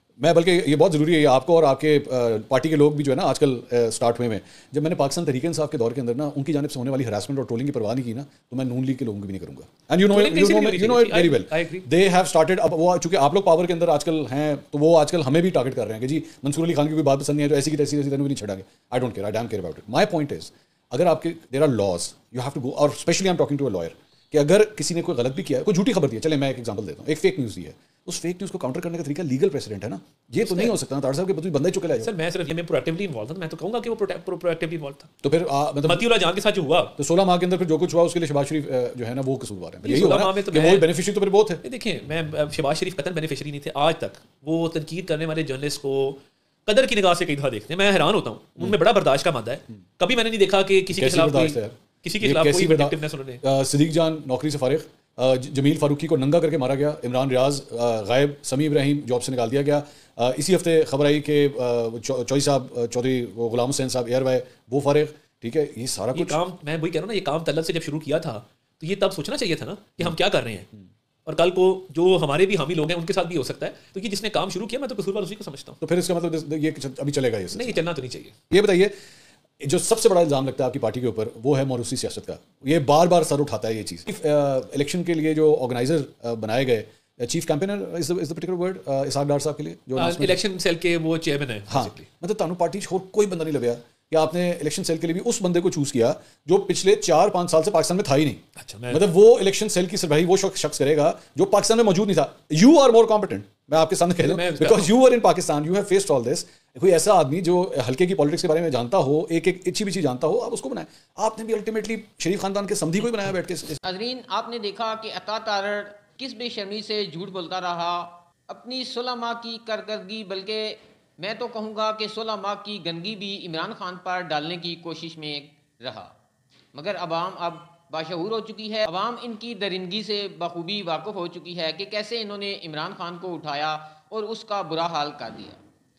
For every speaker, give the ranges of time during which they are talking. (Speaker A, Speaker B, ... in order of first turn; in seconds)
Speaker A: 0.2-32.1, 35.2-36.1, 37.0-41.6, 50.9-66.4, 75.8-77.8, 78.5-78.9, 79.6-90.4, 91.7-113.8
Speaker B: 10.1-11.9, 30.4-30.8, 32.0-35.1, 35.8-37.0, 39.8-40.9, 41.6-53.4, 66.1-70.7, 71.2-75.8, 77.5-78.4, 90.0-92.1, 98.6-99.0, 104.2-105.0
Speaker C: 113.8-126.1, 126.8-135.6